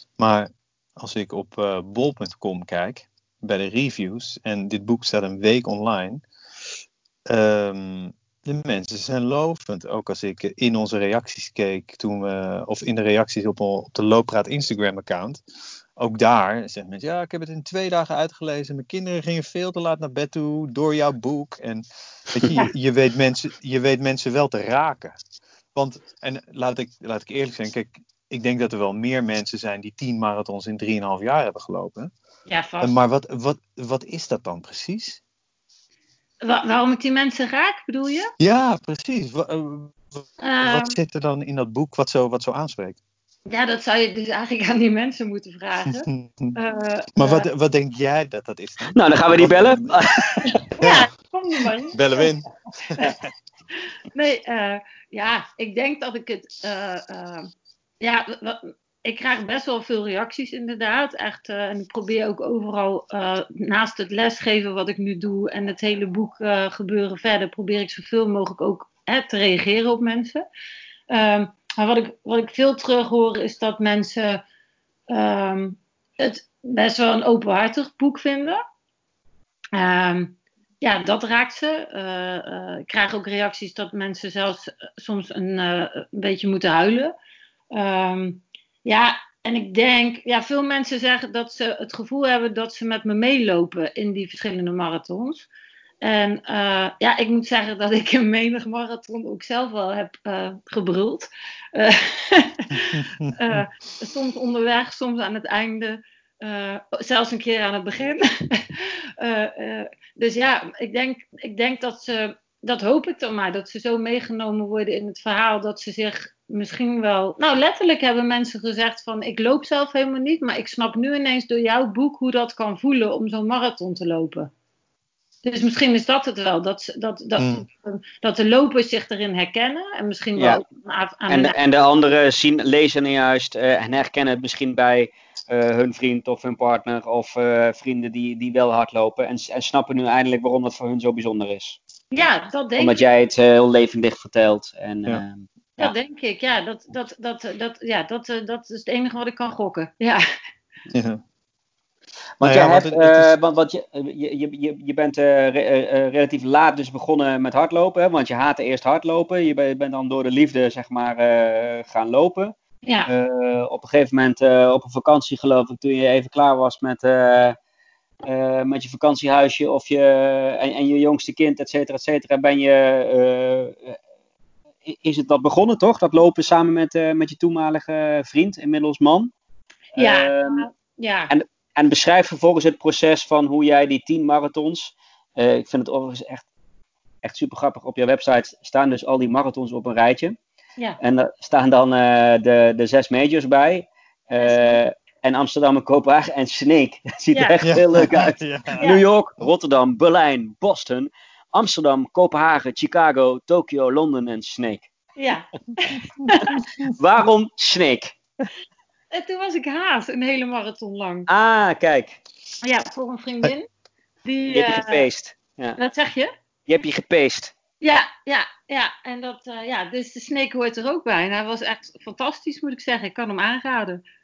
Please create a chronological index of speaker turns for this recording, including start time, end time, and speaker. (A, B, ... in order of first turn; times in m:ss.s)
0:00.2-0:06.2 A
0:07.3-0:15.4 A
0:16.0-0:25.2 A
0:25.8-0:32.1 A
0:32.5-0:32.9 B
0:32.8-0:35.2 A
0:36.4-0:38.3 B
0:38.4-0:43.0 A
0:40.4-0:41.0 B
0:43.5-0:47.5 B
0:45.8-0:46.6 A
0:47.2-0:51.1 A
0:48.9-0:50.5 C
0:50.6-0:52.3 B
0:51.9-0:53.2 A
0:54.1-0:57.5 B
0:58.0-1:10.4 B
1:11.1-1:14.4 B
1:15.1-1:18.6 B
1:19.8-1:27.2 B
1:27.7-1:35.5 B
1:36.0-2:04.5 B
1:42.8-1:43.7 A
2:05.4-2:11.6 B
2:07.4-2:07.7 A
2:10.4-2:10.6 C
2:11.3-2:21.8 C
2:22.1-2:23.0 B
2:22.8-2:25.9 C
2:25.8-2:30.2 B
2:30.9-2:31.2 A
2:32.4-2:42.5 C
2:32.4-2:33.3 A
2:43.1-2:47.6 C
2:48.3-2:54.0 C
2:54.8-2:59.3 C
2:59.9-3:00.7 C
3:00.0-3:01.3 B
3:01.3-3:06.5 C
3:07.2-3:10.4 C
3:11.0-3:24.9 C
3:14.4-3:14.8 B
3:17.6-3:18.8 A
3:25.2-3:26.6 B
3:26.4-3:28.2 C
3:29.1-3:31.3 B
3:31.3-3:32.2 C
3:32.6-3:33.7 B
3:34.2-3:35.1 B
3:34.5-3:35.8 C
3:35.8-3:36.3 B
3:36.7-3:37.5 C
3:37.8-3:44.0 B